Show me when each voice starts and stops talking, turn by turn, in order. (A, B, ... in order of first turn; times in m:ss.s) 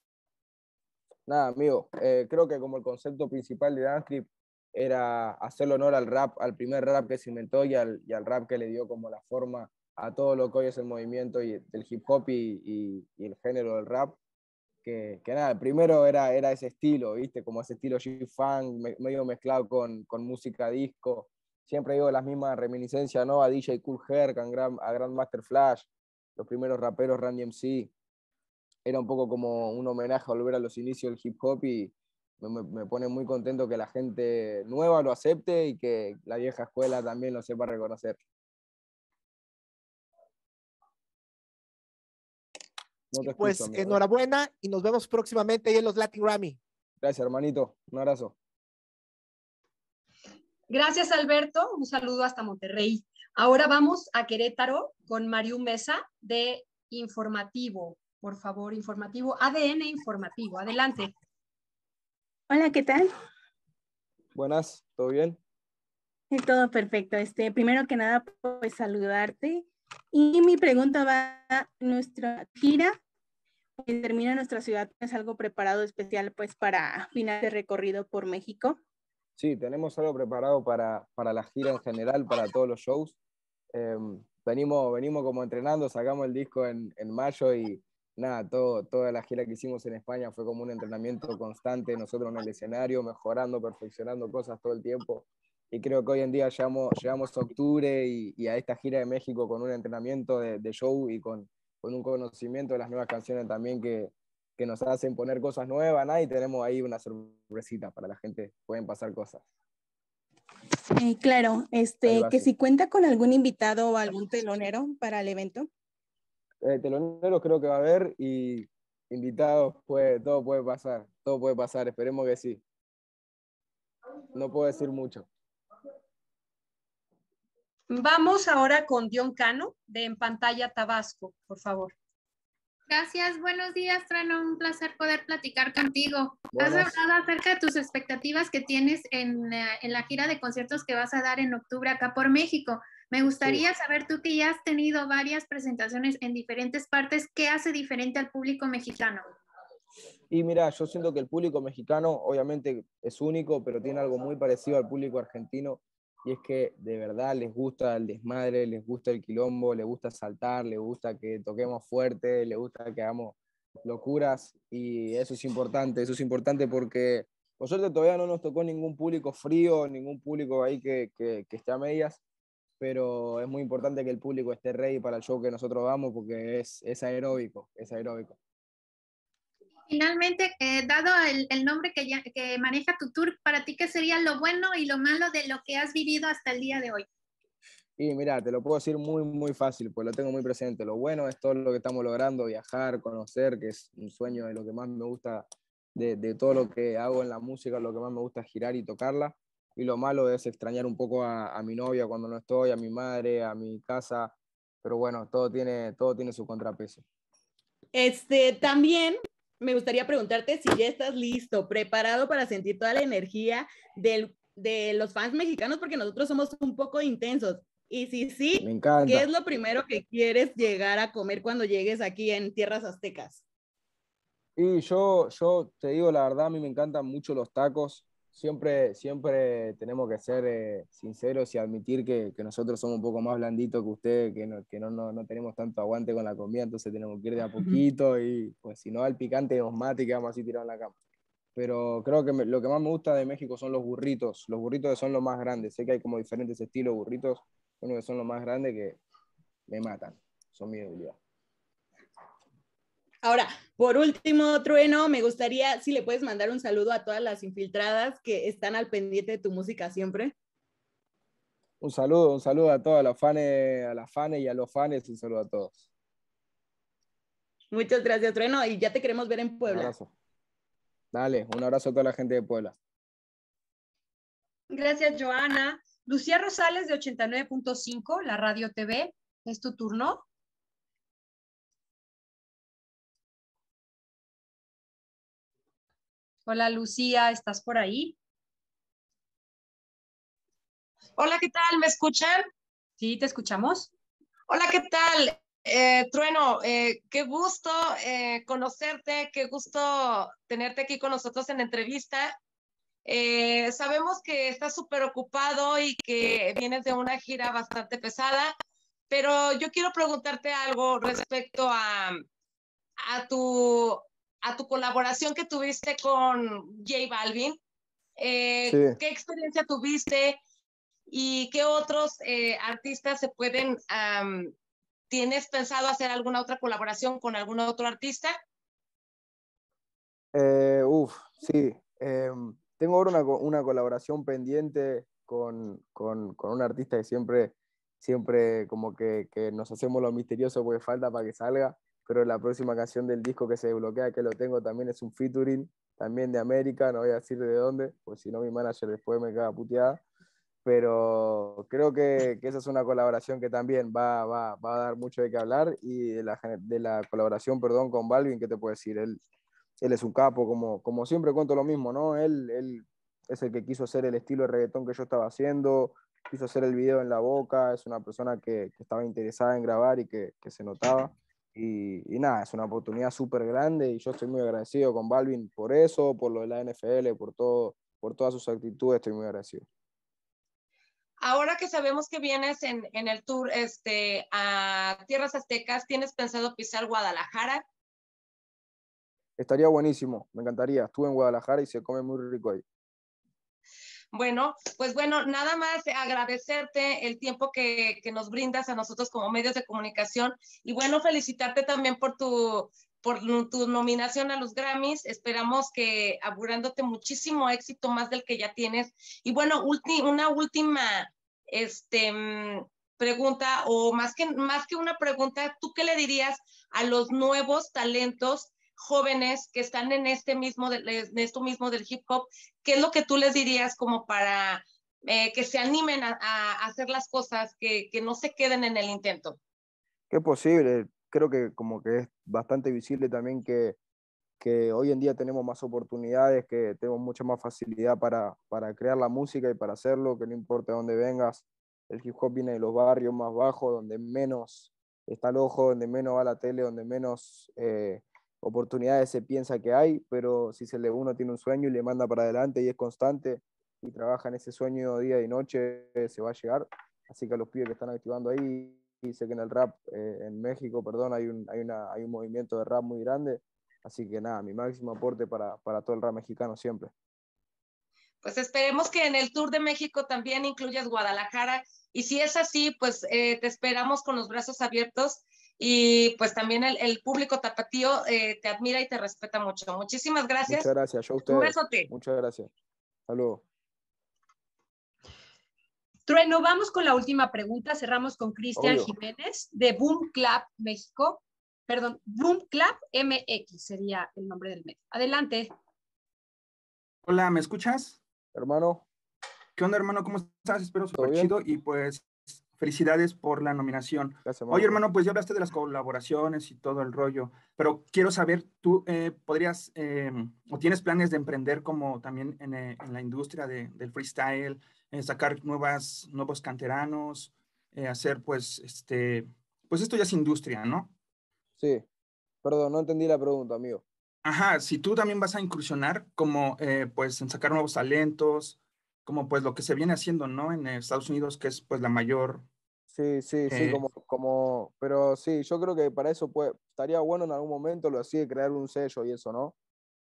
0:01.3-0:14.2 A
0:14.8-0:27.9 A
0:28.9-0:38.2 A
0:43.1-0:44.0 A
0:43.2-0:46.6 B
0:47.0-0:48.4 A
0:50.7-1:01.1 C
1:02.5-1:03.1 D
1:04.4-1:05.4 A
1:06.3-1:13.0 D
1:13.8-1:18.8 D
1:19.4-1:23.2 A
1:23.7-1:49.4 A
1:50.9-1:55.7 D
1:52.1-1:52.5 A
1:56.6-2:02.6 A
2:04.3-2:05.3 A
2:07.9-2:11.9 C
2:12.9-2:29.2 E
2:16.5-2:17.0 A
2:23.4-2:23.6 A
2:30.3-2:52.2 A
2:52.8-2:58.4 A
2:59.9-3:07.0 E
3:08.0-3:27.0 A
3:28.0-3:29.1 F
3:29.7-3:38.5 F
3:38.6-3:39.3 A
3:39.1-3:43.3 F
3:44.6-4:00.9 A
4:01.6-4:09.0 A
4:09.7-4:11.2 A
4:13.3-4:20.2 F
4:21.8-4:25.8 A
4:27.8-4:29.8 F
4:29.6-4:30.1 A
4:31.1-4:32.8 A
4:34.7-4:40.2 C
4:46.5-4:48.2 C
4:51.2-4:52.4 G
4:53.0-4:53.9 C
4:54.5-5:02.4 G
5:03.0-5:08.5 G
5:09.1-5:12.2 G
5:13.0-5:17.6 G
5:18.2-5:20.4 G
5:18.7-5:19.0 A
5:21.1-5:24.5 G
5:25.1-5:28.3 G
5:30.3-5:50.0 A
5:50.6-5:59.2 A
5:59.8-6:19.7 A
6:21.2-6:27.6 G
6:29.4-6:32.6 A
6:34.1-7:09.4 G
7:10.1-7:13.8 A
7:14.4-7:46.9 A
7:48.2-8:00.7 G
8:00.5-8:02.5 A
8:01.3-8:01.9 G
8:03.1-8:03.4 A
8:06.1-8:15.5 C
8:08.6-8:08.9 A
8:17.1-8:18.0 H
8:18.3-8:18.8 A
8:19.6-8:40.9 H
8:20.9-8:21.3 A
8:24.2-8:24.8 A
8:41.6-8:41.9 A
8:42.4-8:43.8 A
8:44.2-8:52.5 H
8:52.9-8:59.6 A
8:53.5-8:53.8 H